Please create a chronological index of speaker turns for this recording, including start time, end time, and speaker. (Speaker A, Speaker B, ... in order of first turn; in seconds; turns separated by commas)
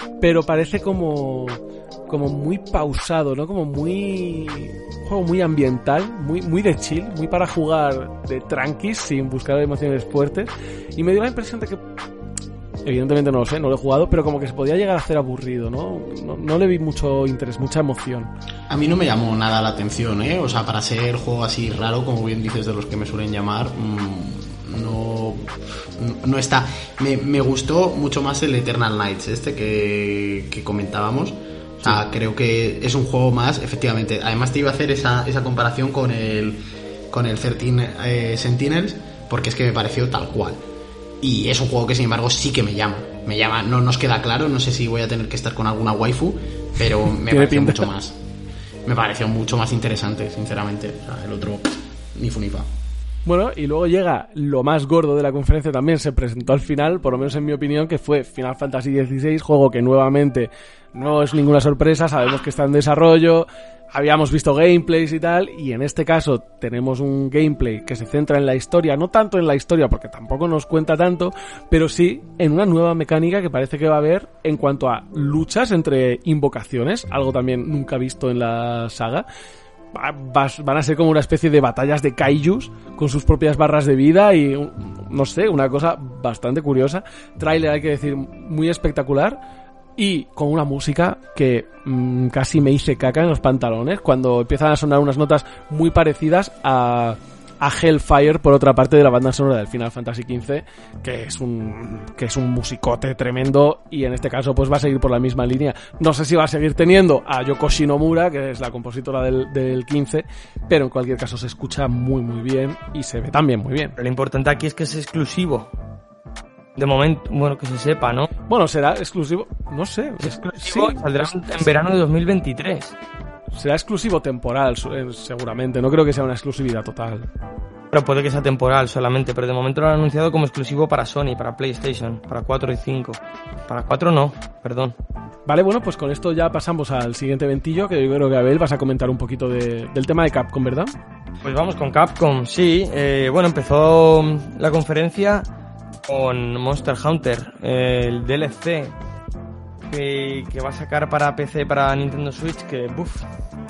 Speaker A: 0.2-11.8, Speaker A: 12.8-18.3, Speaker B: 18.7-40.6, Speaker B: 41.2-48.2, Speaker A: 47.2-47.9, Speaker B: 48.9-52.7, Speaker A: 53.2-79.2, Speaker A: 79.9-89.4, Speaker A: 90.0-114.0, Speaker C: 114.0-115.7, Speaker C: 116.8-118.3, Speaker A: 118.5-121.5, Speaker C: 120.2-123.0, Speaker A: 123.5-127.3, Speaker C: 127.9-135.0, Speaker A: 135.4-140.9, Speaker C: 141.4-145.4, Speaker C: 146.1-148.9, Speaker C: 149.9-153.2